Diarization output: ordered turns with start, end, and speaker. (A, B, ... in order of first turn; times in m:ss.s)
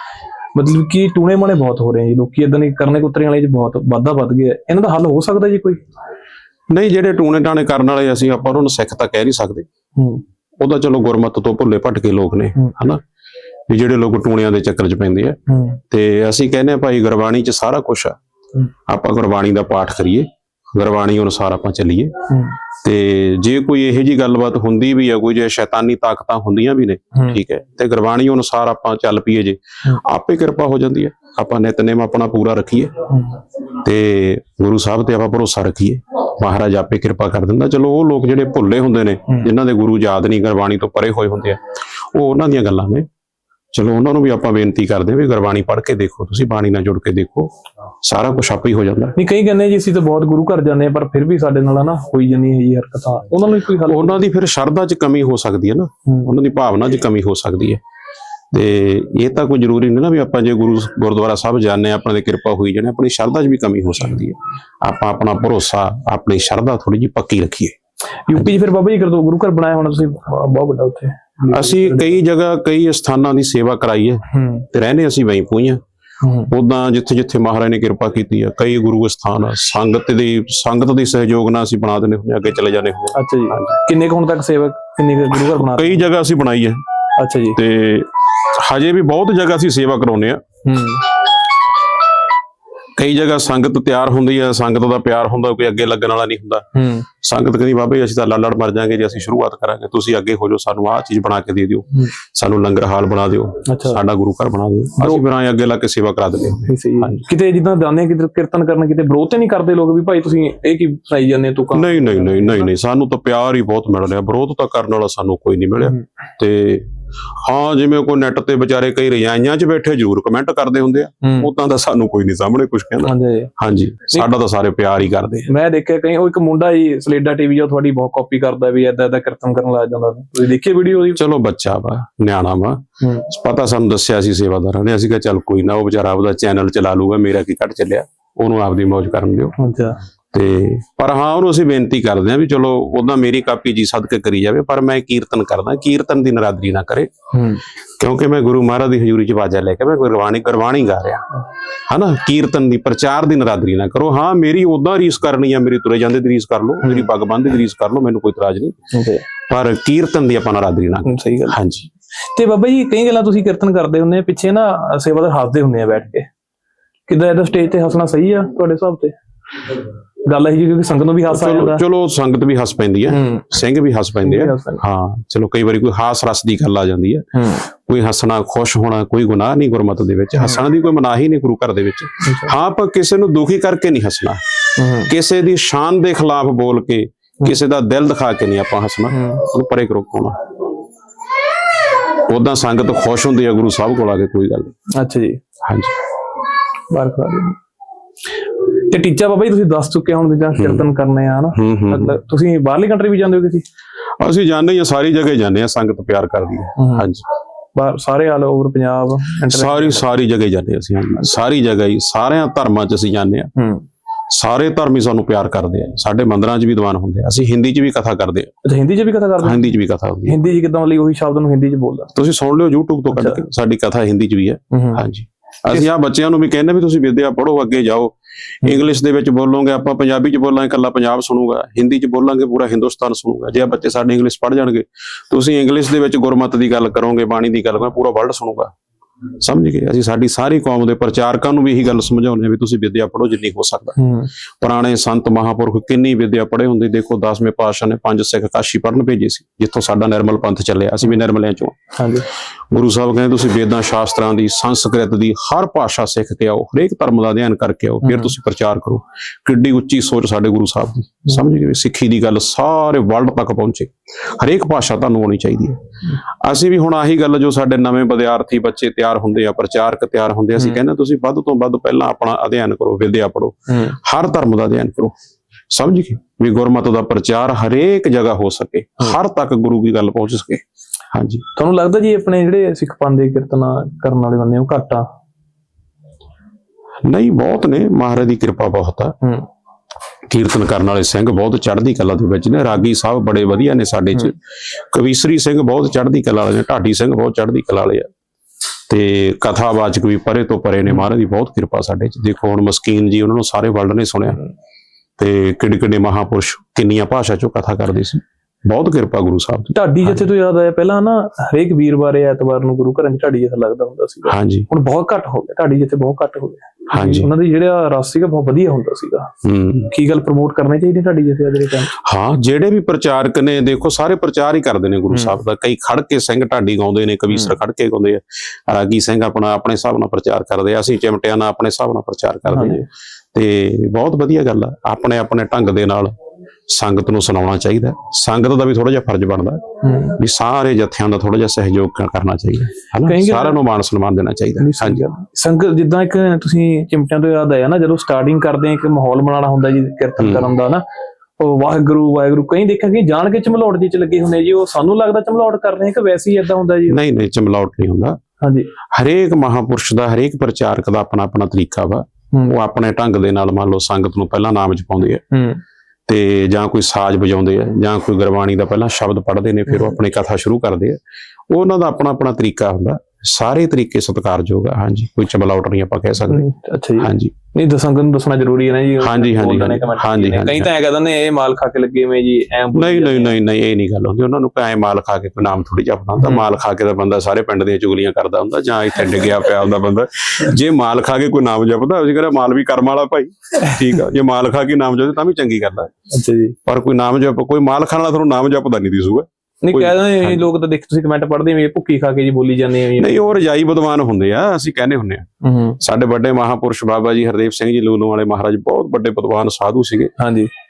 0:00.6-0:05.8 A
0:06.7-0:09.7 B
0:10.0-0:10.2 A
0:10.6-0:13.0 B
0:13.7-0:15.4 B
0:15.5-0:15.8 A
0:15.9-0:18.2 B
0:18.9-0:22.1 B
0:22.3-0:22.6 A
0:22.8-0:32.9 B
0:33.1-0:33.4 A
0:33.8-0:41.6 B
0:42.1-0:43.1 B
0:43.7-0:47.5 B
0:48.0-0:49.2 B
0:49.2-0:54.2 A
0:53.8-0:57.8 B
0:56.1-0:56.3 A
0:58.5-1:07.8 B
1:08.3-1:12.2 A
1:11.5-1:15.8 B
1:14.3-1:14.7 A
1:16.2-1:16.5 A
1:16.5-1:23.8 B
1:23.2-1:26.1 A
1:25.3-1:26.8 B
1:27.2-1:27.6 A
1:27.6-1:30.4 B
1:30.6-1:31.2 A
1:33.0-1:36.6 B
1:36.8-1:37.1 A
1:37.2-1:47.2 B
1:43.7-1:44.0 A
1:46.7-1:52.5 A
1:51.7-1:56.9 B
1:57.4-2:05.5 B
2:01.2-2:01.5 A
2:03.0-2:03.5 A
2:05.5-2:11.2 A
2:11.2-2:19.6 B
2:13.0-2:13.3 A
2:19.6-2:20.0 A
2:20.3-2:27.1 B
2:27.3-2:27.6 A
2:28.0-2:31.3 B
2:31.9-2:38.8 B
2:38.9-2:39.2 A
2:39.5-2:41.9 B
2:41.0-2:41.6 A
2:42.3-2:46.3 A
2:47.1-2:49.2 A
2:50.3-2:51.8 A
2:51.3-2:57.2 B
2:53.1-2:53.5 A
2:54.2-2:54.8 A
2:57.4-2:57.7 A
2:57.8-3:04.4 B
3:02.2-3:02.5 A
3:04.8-3:05.1 A
3:05.1-3:10.4 B
3:09.1-3:09.4 A
3:12.3-3:14.7 B
3:15.0-3:15.4 A
3:15.6-3:16.0 B
3:16.9-3:17.6 A
3:18.9-3:23.6 A
3:20.6-3:20.9 B
3:21.5-3:22.2 B
3:24.2-3:27.2 B
3:26.8-3:27.1 A
3:27.8-3:30.0 A
3:29.5-3:33.5 B
3:33.6-3:33.8 A
3:34.3-3:38.5 B
3:38.6-3:39.7 A
3:39.4-3:40.4 B
3:40.3-3:42.1 A
3:42.2-3:58.7 B
3:43.1-3:43.4 A
3:44.7-3:45.0 A
3:59.4-4:04.0 B
4:04.0-4:04.3 A
4:04.6-4:11.8 B
4:12.0-4:12.3 A
4:12.7-4:25.8 B
4:18.0-4:18.3 A
4:26.4-4:35.1 B
4:33.7-4:34.0 A
4:35.7-4:40.6 B
4:41.1-4:41.4 B
4:41.6-4:45.0 A
4:47.1-4:49.1 B
4:50.3-4:54.4 B
4:54.9-4:58.1 B
4:58.9-5:04.4 B
5:05.2-5:10.2 B
5:09.7-5:19.3 A
5:14.3-5:14.7 B
5:16.9-5:17.3 B
5:19.4-5:19.9 B
5:19.9-5:21.9 A
5:21.9-5:36.1 B
5:32.5-5:32.9 A
5:36.7-5:39.6 B
5:39.8-5:40.2 A
5:40.2-5:45.0 B
5:43.0-5:43.6 A
5:44.6-5:50.8 A
5:50.2-5:50.5 B
5:51.4-5:57.0 A
5:56.9-5:58.2 B
5:58.4-5:58.7 A
5:58.9-6:05.2 B
6:05.3-6:05.6 A
6:06.1-6:11.0 B
6:11.5-6:16.5 B
6:16.3-6:23.4 A
6:17.0-6:17.3 B
6:19.0-6:20.7 B
6:22.7-6:35.9 B
6:36.1-6:36.6 A
6:36.7-6:40.5 B
6:39.6-6:43.3 A
6:43.0-6:45.3 B
6:45.4-6:45.8 A
6:45.8-6:50.1 B
6:50.2-6:50.5 A